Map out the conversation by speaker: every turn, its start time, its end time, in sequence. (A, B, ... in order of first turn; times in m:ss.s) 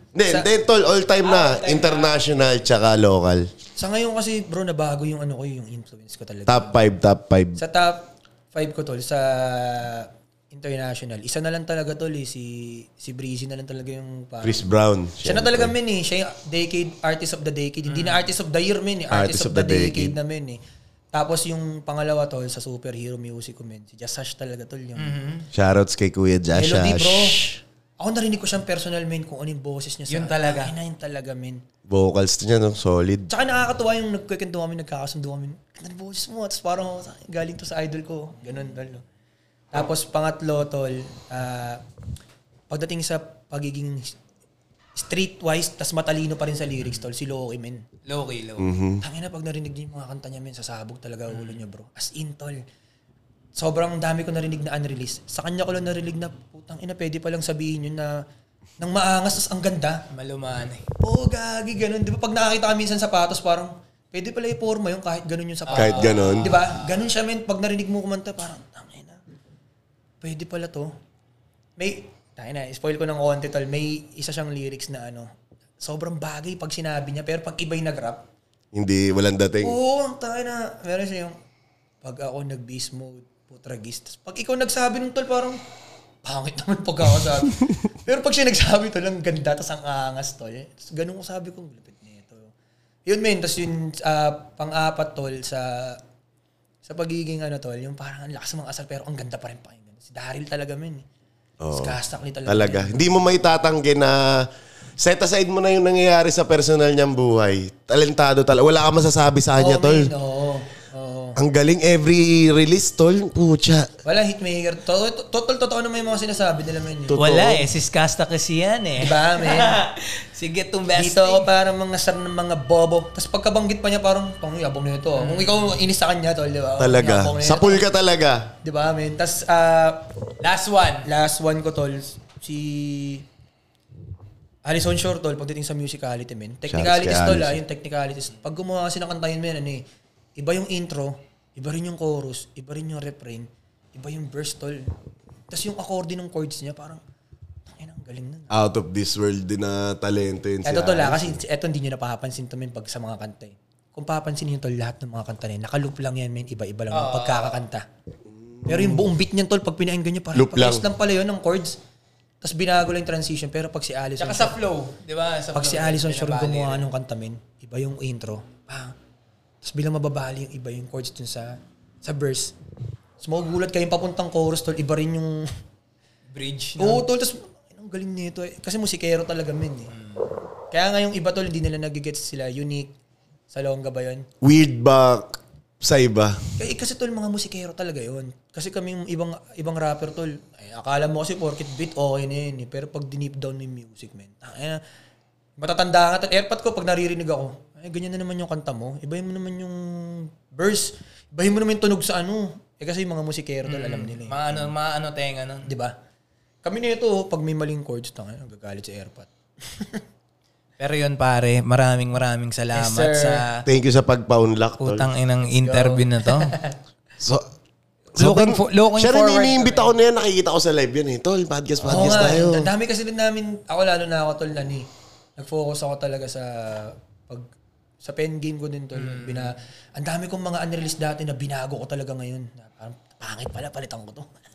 0:00.1-0:03.5 A
0:01.2-0:02.6 B
0:03.8-0:06.8 C
0:06.5-0:07.6 A
0:07.6-0:14.6 C
0:14.4-0:15.7 A
0:15.2-0:20.6 C
0:17.9-0:18.2 B
0:19.1-0:20.1 A
0:21.1-0:25.1 C
0:25.0-0:25.4 B
0:25.5-0:27.6 A
0:26.5-0:31.6 C
0:30.1-0:30.7 B
0:31.9-0:33.3 A
0:33.3-0:39.0 C
0:39.7-0:41.8 C
0:42.7-0:44.1 C
0:45.0-0:47.8 C
0:48.0-0:48.7 B
0:48.6-0:49.0 A
0:49.0-0:52.6 C
0:51.3-0:51.6 B
0:53.6-0:58.2 C
0:58.8-1:00.0 C
1:00.1-1:00.8 B
1:01.0-1:09.2 C
1:05.7-1:07.0 B
1:05.7-1:06.6 A
1:10.2-1:10.9 C
1:11.8-1:15.3 C
1:15.8-1:18.2 C
1:18.7-1:19.8 A
1:19.6-1:21.4 C
1:22.0-1:25.6 C
1:26.2-1:32.5 C
1:33.1-1:36.0 C
1:36.8-1:41.0 C
1:41.6-1:42.0 A
1:41.7-1:43.2 C
1:42.5-1:50.1 A
1:49.6-1:51.4 C
1:51.4-1:53.9 A
1:54.0-1:57.2 C
1:57.0-1:57.7 A
1:57.2-2:01.5 B
1:59.0-1:59.8 C
2:00.9-2:07.8 C
2:05.2-2:05.8 B
2:06.8-2:08.5 A
2:08.6-2:10.1 C
2:10.4-2:11.1 B
2:11.0-2:13.3 C
2:14.6-2:19.8 C
2:16.7-2:17.6 A
2:20.4-2:24.9 C
2:25.5-2:27.0 C
2:27.7-2:28.5 C
2:28.5-2:31.4 A
2:30.6-2:37.8 C
2:36.9-2:37.6 B
2:38.4-2:39.0 A
2:38.6-2:41.8 C
2:40.4-2:40.8 A
2:42.4-2:44.6 C
2:44.2-2:46.8 B
2:45.5-2:49.0 C
2:49.6-2:52.6 C
2:53.2-2:55.5 C
2:56.3-2:57.0 B
2:56.8-2:59.9 C
2:59.9-3:00.3 B
3:00.7-3:02.9 C
3:03.5-3:04.3 C
3:04.4-3:06.4 A
3:06.6-3:14.8 C
3:15.6-3:24.7 C
3:23.7-3:25.7 B
3:25.7-3:26.0 C
3:26.6-3:30.0 C
3:30.8-3:33.6 B
3:32.7-3:33.4 C
3:33.6-3:35.1 A
3:34.8-3:36.6 B
3:35.6-3:36.7 C
3:37.2-3:37.5 A
3:38.1-3:42.7 A
3:38.2-3:39.9 B
3:41.8-3:47.5 C
3:41.9-3:42.2 B
3:48.0-3:54.3 C
3:49.0-3:49.5 B